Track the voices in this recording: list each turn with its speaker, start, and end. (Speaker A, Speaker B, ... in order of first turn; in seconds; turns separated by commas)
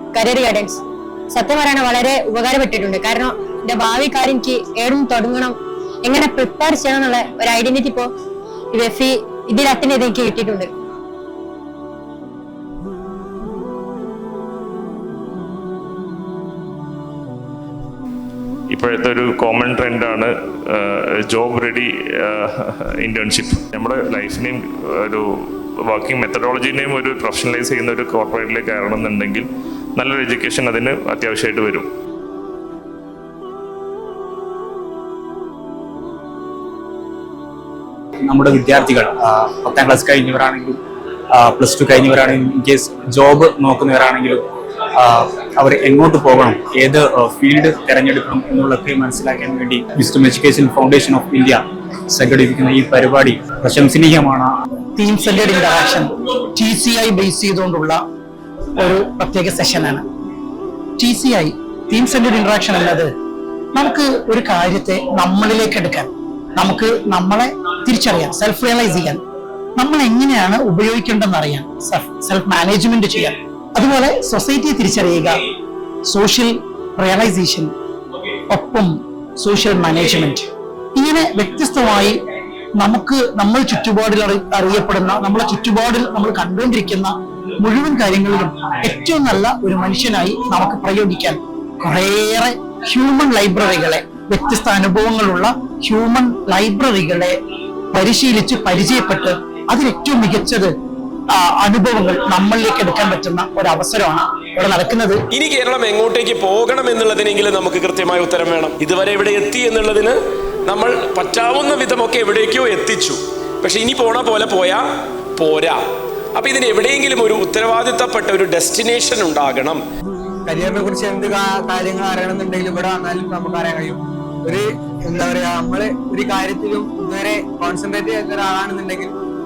Speaker A: 0.1-8.1, Speaker A: 8.7-10.7, Speaker B: 18.7-25.3, Speaker B: 25.9-31.9, Speaker C: 38.2-40.8, Speaker C: 41.3-44.4, Speaker C: 45.0-54.6, Speaker D: 55.0-58.0, Speaker D: 58.8-60.0, Speaker D: 61.0-63.1, Speaker D: 63.7-69.2, Speaker D: 69.8-75.4, Speaker D: 76.1-77.7, Speaker D: 78.5-82.2, Speaker D: 82.8-97.3, Speaker D: 97.9-100.7, Speaker D: 101.4-105.2, Speaker E: 105.3-114.8, Speaker E: 115.4-115.8, Speaker E: 116.4-119.8, Speaker F: 120.5-129.1